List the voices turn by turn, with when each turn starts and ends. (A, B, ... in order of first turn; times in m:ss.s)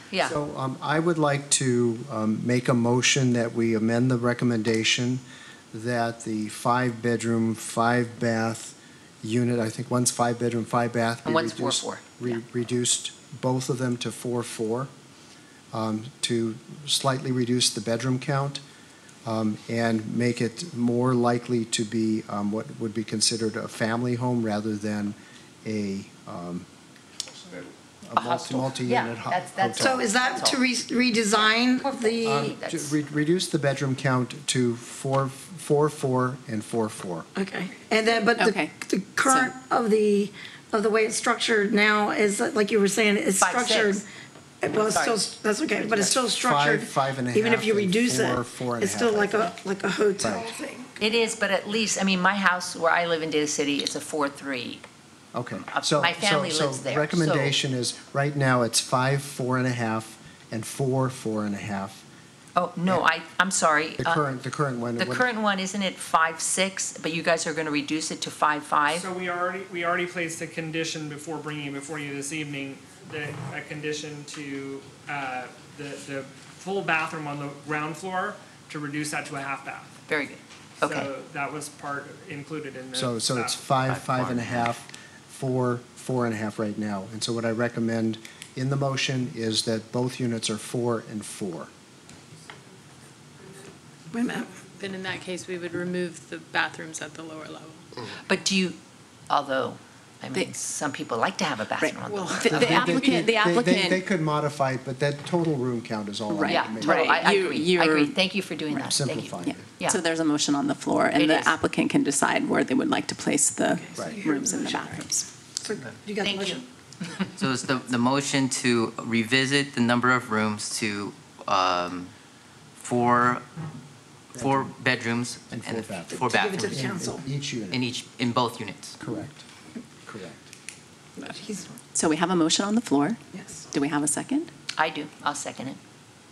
0:00.2-0:14.9 A
0:11.2-0:12.4 B
0:15.7-0:18.6 A
0:19.2-0:26.7 A
0:28.0-0:30.0 A
0:28.1-0:30.6 B
0:29.8-0:32.3 C
0:31.5-0:33.0 B
0:32.2-0:37.3 A
0:37.3-0:44.0 C
0:38.4-0:38.7 D
0:39.2-0:39.5 D
0:43.4-0:44.0 B
0:44.6-0:51.0 C
0:44.9-0:45.2 B
0:46.0-0:49.5 A
0:50.2-0:50.5 A
0:51.0-0:54.8 B
0:55.3-1:02.0 A
0:55.7-0:57.6 B
1:02.6-1:04.2 B
1:04.0-1:05.3 A
1:05.0-1:09.1 B
1:08.9-1:19.9 E
1:20.1-1:21.1 B
1:20.8-1:23.6 E
1:23.0-1:31.7 A
1:23.9-1:24.7 F
1:34.1-1:34.6 C
1:34.6-1:37.9 G
1:38.2-1:38.8 B
1:39.3-1:42.8 B
1:41.8-1:44.0 D
1:42.1-1:43.3 G
1:42.5-1:47.1 A
1:46.3-1:48.2 D
1:46.5-1:50.0 B
1:48.9-1:49.7 A
1:49.4-1:55.3 D
1:51.2-1:51.6 B
1:53.9-1:55.0 C
1:55.6-1:56.7 C
1:56.2-1:57.3 B
1:57.4-2:02.1 F
2:02.8-2:03.4 F
2:04.3-2:04.7 A
2:04.3-2:06.8 F
2:05.5-2:07.8 A
2:06.1-2:07.2 C
2:07.7-2:09.0 F
2:09.0-2:09.4 A
2:10.1-2:10.5 A
2:11.2-2:11.7 C
2:11.9-2:14.5 D
2:13.3-2:13.6 C
2:14.8-2:15.8 B